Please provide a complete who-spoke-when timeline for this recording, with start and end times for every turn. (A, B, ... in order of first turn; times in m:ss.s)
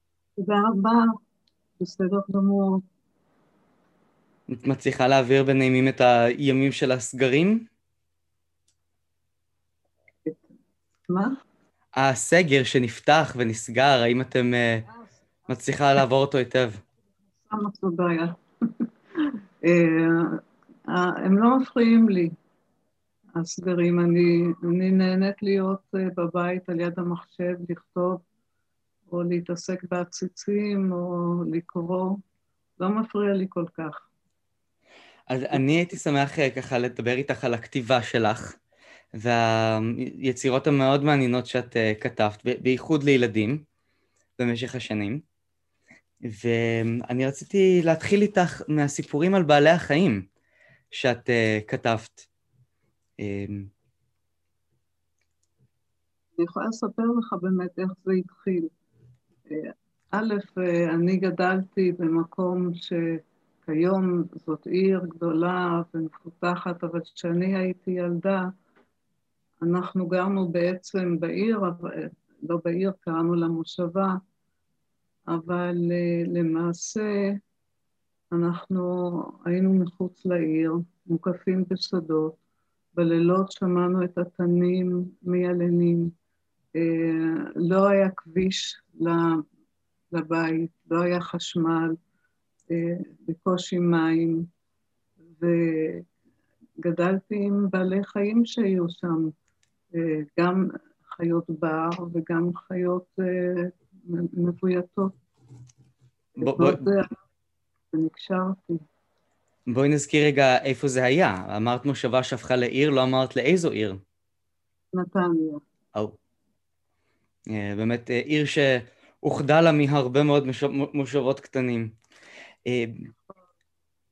0:00.4-0:01.1 A
0:01.8-0:02.8 A
0:04.5-0:07.7 B
0:10.2-0:10.5 A
0:11.1-0:11.4 A
0:12.0-0:14.9 B
0:14.9-0:15.2 A
0:15.5-0:16.8 B
0:17.4-0:22.4 A
0:23.4-0:28.2 A
0:29.1-0:32.2 A
0:32.8-0:34.1 A
0:35.3-0:38.6 B
0:39.2-0:43.6 B
0:44.4-0:45.2 B
0:46.2-0:50.2 B
0:50.9-0:52.3 B
0:53.2-0:53.7 B
0:56.4-0:58.7 A
0:59.5-1:03.0 A
1:03.6-1:08.5 A
1:09.6-1:14.2 A
1:15.3-1:17.3 A
1:18.3-1:22.4 A
1:22.9-1:26.1 A
1:26.8-1:29.4 A
1:30.1-1:32.0 A
1:32.7-1:34.5 A
1:35.4-1:36.1 A
1:36.8-1:39.3 A
1:39.9-1:45.2 A
1:46.4-1:47.2 A
1:46.4-1:46.9 B
1:47.9-1:48.8 A
1:49.7-1:54.0 B
1:54.9-1:55.6 A
1:57.5-2:02.0 B
2:02.7-2:03.1 B